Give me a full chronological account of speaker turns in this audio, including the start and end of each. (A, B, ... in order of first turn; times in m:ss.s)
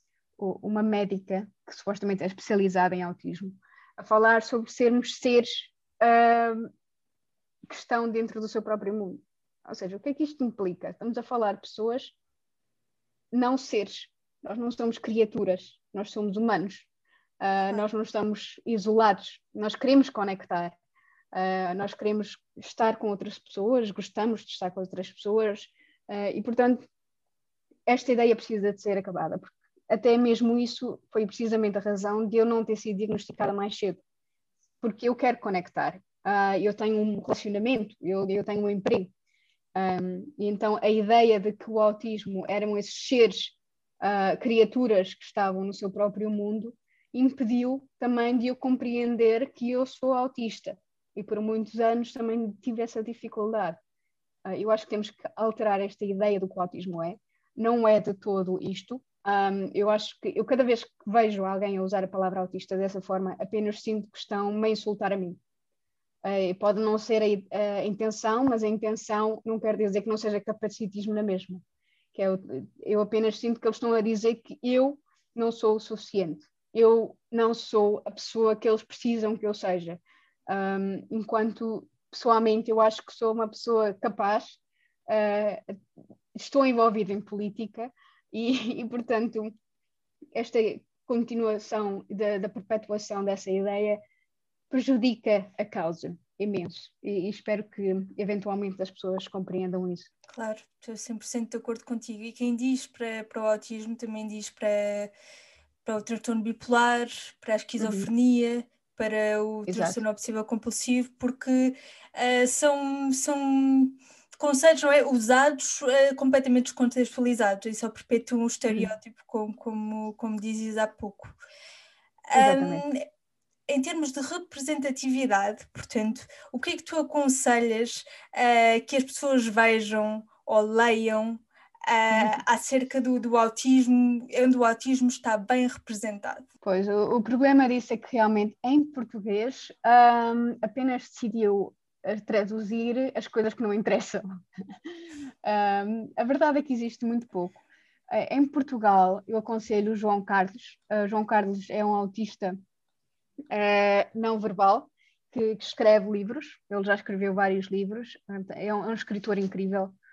0:00.4-0:06.7 A
0:07.7-0:12.1 A
0:13.3-0:16.9 A
0:17.4-0:20.7 A
0:21.3-0:26.8 A
0:27.9-0:34.0 A
0:34.8-0:39.1 A
0:39.7-0:53.8 A
0:54.4-1:05.4 A
1:06.2-1:11.6 A
1:12.1-1:24.6 A
1:25.1-1:25.6 A
1:26.3-1:29.5 A
1:30.4-1:34.0 A
1:34.7-1:40.1 A
1:40.3-1:45.1 B
1:45.8-2:01.4 B
1:47.8-1:48.1 A
1:49.7-1:50.0 A
2:02.3-2:03.0 B
2:02.3-2:02.8 A
2:03.7-2:16.5 B
2:12.1-2:12.4 A
2:16.6-2:24.2 A
2:25.4-2:32.6 A
2:33.5-2:39.9 A